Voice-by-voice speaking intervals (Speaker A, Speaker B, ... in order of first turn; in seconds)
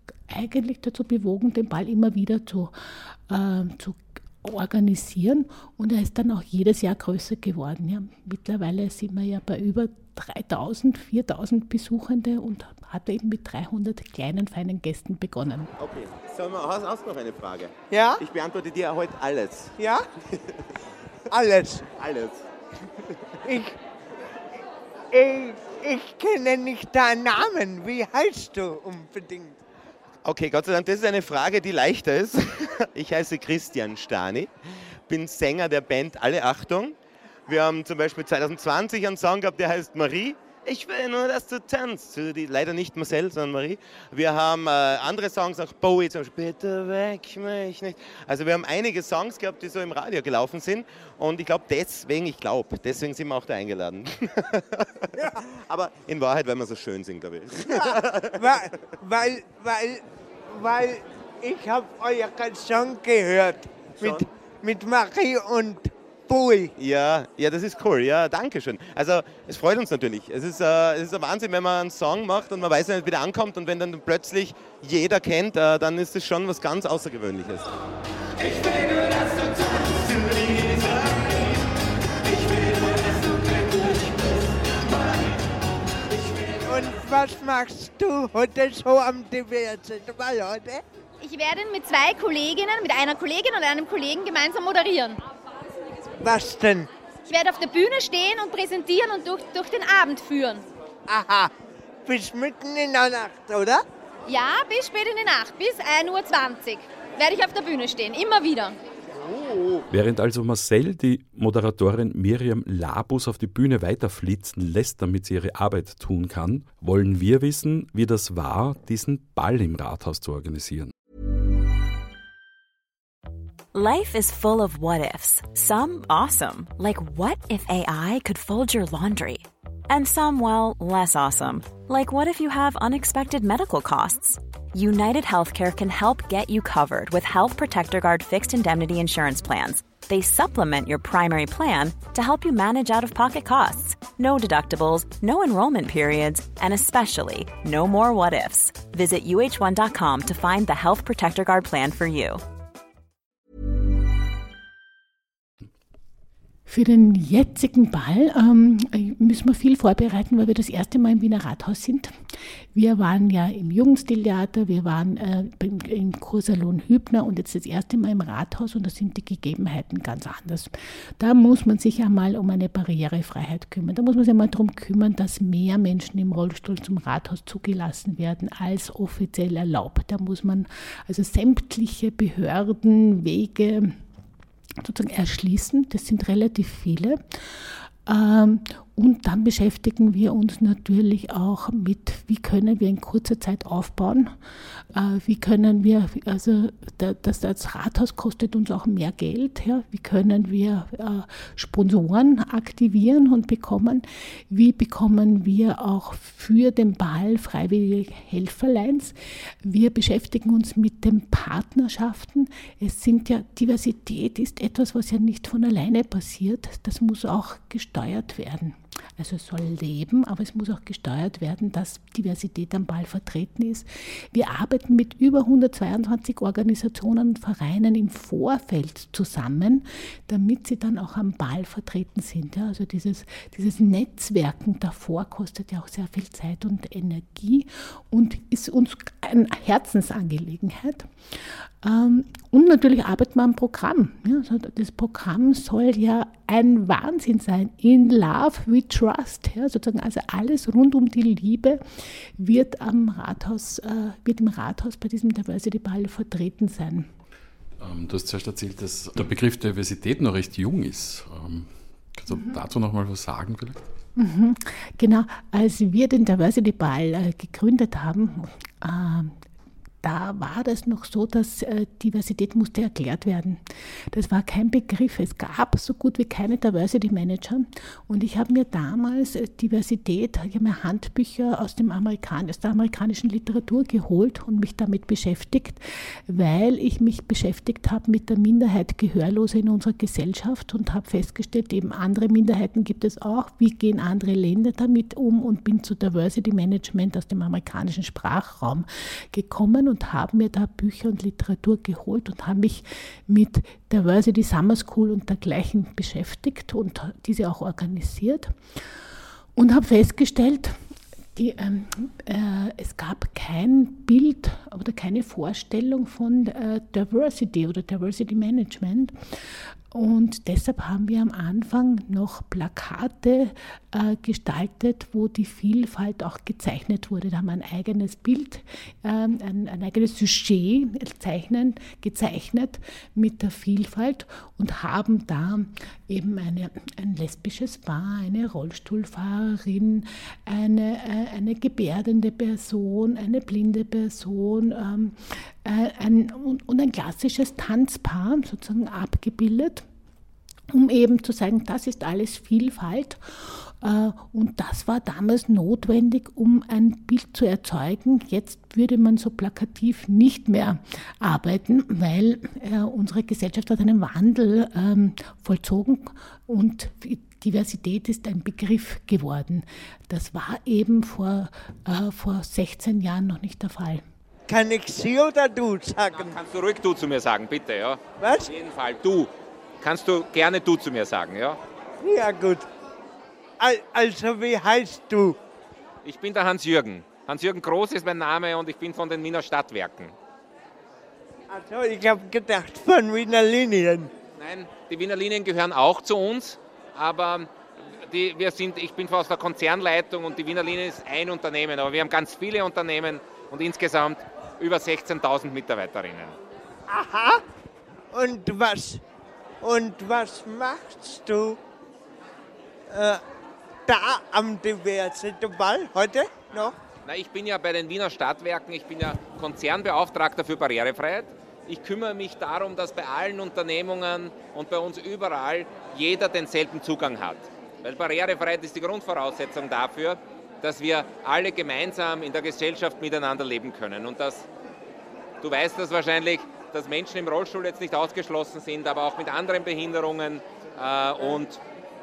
Speaker A: 0.3-15.7, 156.7-162.1, 162.8-184.0, 184.8-257.1, 264.1-269.4, 270.0-308.8, 309.6-310.8, 311.4-349.9, 350.7-374.1
Speaker B: 15.8-19.7, 22.0-22.4, 30.2-34.5, 35.1-37.0, 37.5-58.5, 64.0-64.2, 66.8-77.7
Speaker C: 17.9-18.2, 19.8-20.0, 21.3-21.9, 23.4-23.8, 25.1-29.6, 57.7-66.7, 86.1-90.8, 96.2-96.9, 101.1-101.5, 102.0-103.8, 374.5-376.4, 378.2-378.5, 382.0-382.6, 383.6-385.4, 391.5-394.1, 406.9-407.4, 408.1-409.0, 409.6-411.6, 412.9-413.2, 413.9-416.8
Speaker D: 91.2-95.2, 97.3-100.6, 104.3-108.8
Speaker E: 109.9-120.9, 257.8-263.8
Speaker F: 123.7-152.4
Speaker G: 376.2-381.6, 386.1-390.1, 394.4-406.4, 417.1-434.5, 435.4-441.6